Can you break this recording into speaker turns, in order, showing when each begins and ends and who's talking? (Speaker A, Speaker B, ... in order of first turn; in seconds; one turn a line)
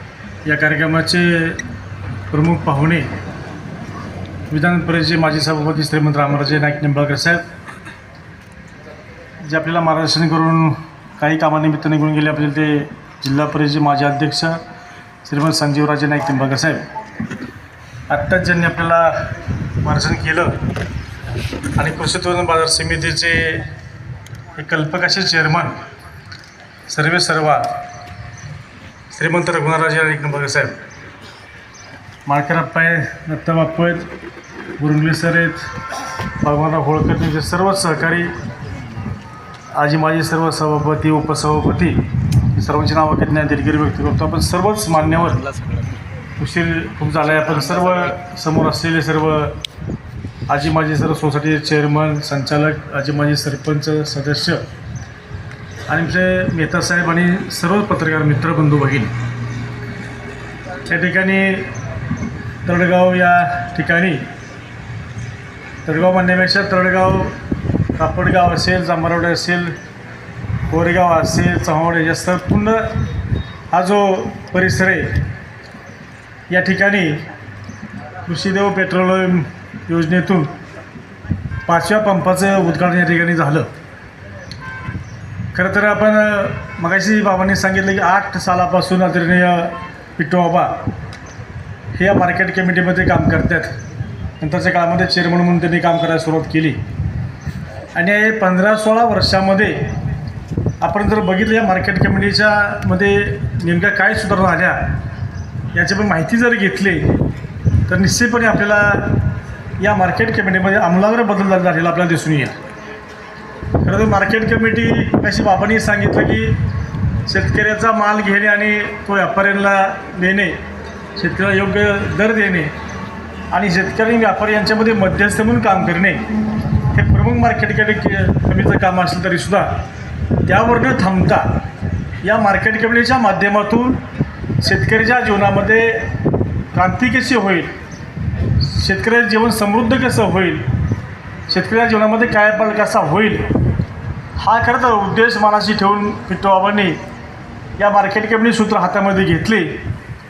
Speaker A: 0.4-1.6
Speaker A: 2.3-3.1
Speaker A: 4.5-7.5
Speaker A: 9.4-14.6
Speaker A: 15.2-16.9
Speaker A: 18.1-19.3
Speaker A: 19.8-20.6
Speaker A: 21.8-23.7
Speaker A: 24.6-25.8
Speaker A: 26.9-27.8
Speaker A: 29.1-30.8
Speaker A: 32.2-34.1
Speaker A: 34.8-35.7
Speaker A: 36.4-38.4
Speaker A: 39.7-45.5
Speaker A: 46.4-49.6
Speaker A: 50.5-54.6
Speaker A: 55.9-59.1
Speaker A: 60.9-61.7
Speaker A: 62.6-64.3
Speaker A: 65.8-67.4
Speaker A: 68.0-69.8
Speaker A: 70.7-72.9
Speaker A: 73.7-75.2
Speaker A: 76.5-77.2
Speaker A: 78.2-80.5
Speaker A: 81.7-83.7
Speaker A: 85.5-90.9
Speaker A: 91.9-93.7
Speaker A: 94.4-96.8
Speaker A: 97.9-99.9
Speaker A: 100.8-104.9
Speaker A: 105.7-107.2
Speaker A: 107.9-109.2
Speaker A: 109.8-112.6
Speaker A: 113.8-116.6
Speaker A: 117.2-120.6
Speaker A: 121.2-122.7
Speaker A: 123.5-126.3
Speaker A: 126.8-129.8
Speaker A: 130.4-131.6
Speaker A: 132.2-134.0
Speaker A: 134.6-136.1
Speaker A: 136.7-137.7
Speaker A: 138.6-140.7
Speaker A: 141.5-143.5
Speaker A: 144.4-147.0
Speaker A: 147.8-149.8